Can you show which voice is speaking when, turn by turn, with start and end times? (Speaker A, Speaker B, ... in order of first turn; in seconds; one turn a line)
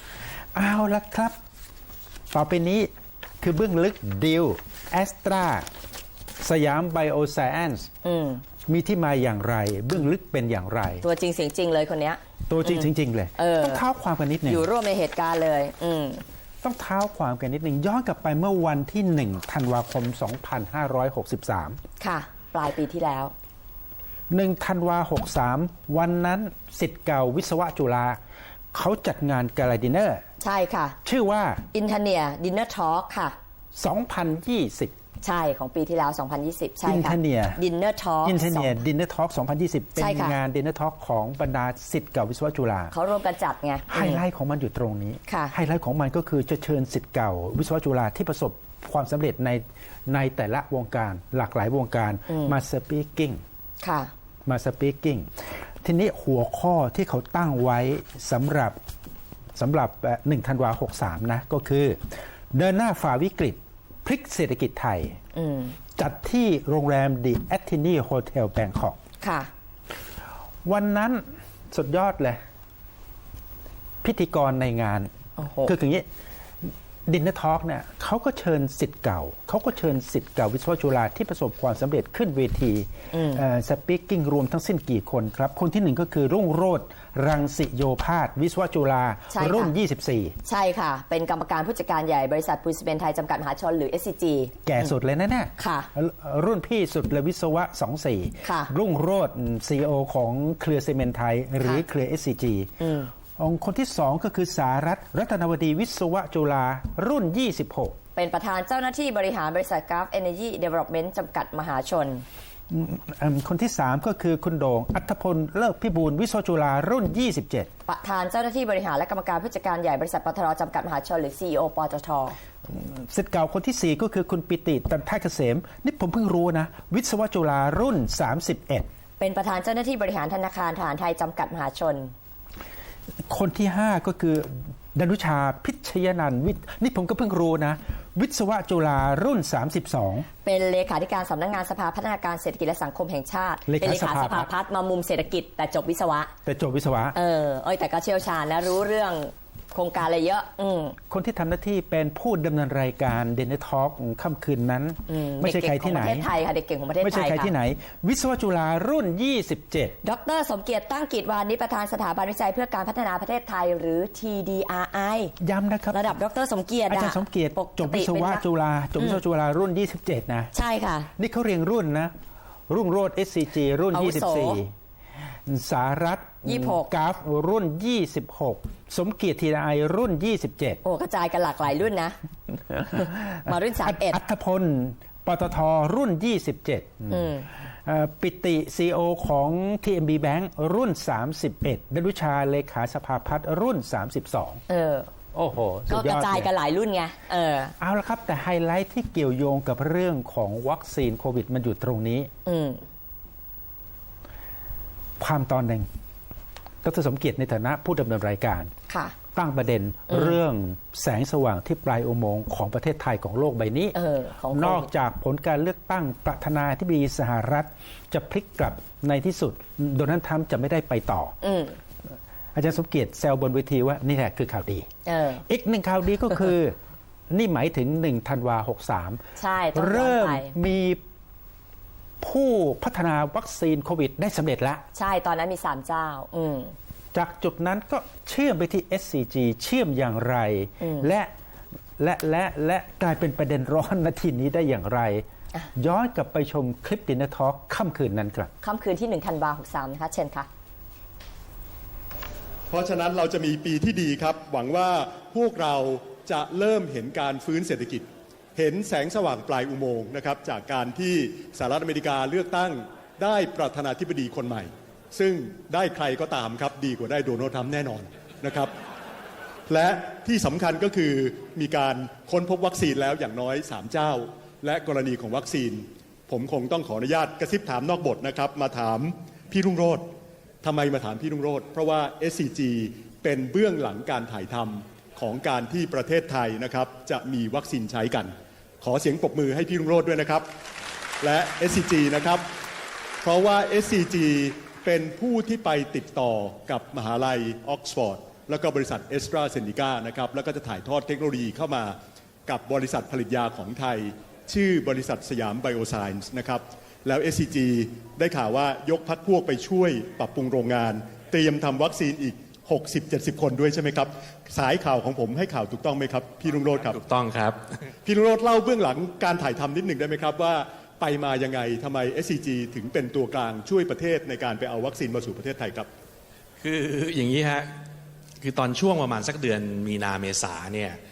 Speaker A: 0.5-1.3
Speaker A: 2.3-2.9
Speaker A: 3.4-5.7
Speaker A: 6.4-7.9
Speaker B: 8.0-8.4
Speaker A: 8.7-11.0
Speaker B: 11.0-13.8
Speaker A: 12.5-14.7
Speaker B: 14.4-16.2
Speaker A: 16.6-21.8
Speaker B: 22.0-23.3
Speaker A: 24.3-28.2
Speaker A: 28.7-30.2
Speaker B: 30.4-31.0
Speaker A: 31.0-31.6
Speaker B: 31.7-33.4
Speaker A: 33.8-34.9
Speaker B: 35.2-38.8
Speaker A: 36.8-37.6
Speaker A: 38.2-42.9
Speaker B: 40.0-40.4
Speaker B: 42.9-44.2
Speaker A: 43.9-53.4
Speaker B: 45.3-45.5
Speaker B: 53.8-54.1
Speaker A: 54.5-55.3
Speaker A: 55.8-58.8
Speaker A: 59.5-62.0
Speaker A: 62.5-65.2
Speaker B: 65.3-65.8
Speaker A: 66.0-69.0
Speaker B: 69.2-69.5
Speaker A: 70.6-72.4
Speaker A: 74.0-75.1
Speaker B: 75.4-75.7
Speaker A: 75.6-76.0
Speaker A: 77.1-90.3
Speaker B: 83.1-83.4
Speaker B: 89.3-89.7
Speaker B: 90.4-94.9
Speaker A: 94.7-102.7
Speaker B: 95.6-95.9
Speaker B: 98.4-98.7
Speaker B: 102.8-103.1
Speaker A: 103.4-108.0
Speaker B: 108.1-112.2
Speaker A: 112.7-117.7
Speaker B: 117.8-122.4
Speaker A: 122.7-128.9
Speaker B: 129.2-132.1
Speaker A: 133.3-140.3
Speaker B: 140.4-146.3
Speaker A: 143.7-144.5
Speaker A: 146.4-147.2
Speaker B: 147.1-150.9
Speaker A: 151.1-156.3
Speaker B: 155.1-157.5
Speaker A: 157.0-159.9
Speaker B: 160.0-165.3
Speaker A: 165.4-166.1
Speaker B: 165.9-168.4
Speaker A: 166.9-170.5
Speaker B: 170.5-171.1
Speaker A: 171.2-172.1
Speaker A: 172.7-174.7
Speaker B: 173.9-174.6
Speaker A: 175.5-180.8
Speaker B: 176.4-176.9
Speaker B: 180.8-182.2
Speaker B: 182.8-184.2
Speaker A: 183.8-187.3
Speaker B: 187.1-187.5
Speaker A: 187.8-194.6
Speaker B: 194.7-195.1
Speaker A: 195.3-196.5
Speaker B: 195.9-197.7
Speaker A: 197.8-202.3
Speaker B: 202.4-202.8
Speaker A: 205.2-205.8
Speaker A: 206.8-208.7
Speaker B: 208.9-209.1
Speaker A: 209.3-213.9
Speaker B: 210.1-210.3
Speaker B: 213.9-214.9
Speaker A: 214.5-221.3
Speaker B: 221.4-221.8
Speaker A: 222.5-224.9
Speaker B: 225.1-225.4
Speaker A: 225.4-226.7
Speaker A: 227.3-229.2
Speaker B: 229.4-230.5
Speaker A: 229.7-231.0
Speaker A: 232.2-234.8
Speaker B: 234.9-236.7
Speaker A: 237.1-241.3
Speaker B: 240.8-241.1
Speaker A: 242.0-245.2
Speaker A: 245.8-248.5
Speaker B: 248.6-250.5
Speaker C: 252.7-268.7
Speaker C: 269.7-280.1
Speaker C: 280.6-290.4
Speaker C: 291.2-292.4
Speaker C: 293.2-301.9
Speaker C: 302.5-317.0
Speaker D: 316.7-317.6
Speaker C: 318.0-325.9
Speaker D: 326.6-327.7
Speaker D: 328.4-331.0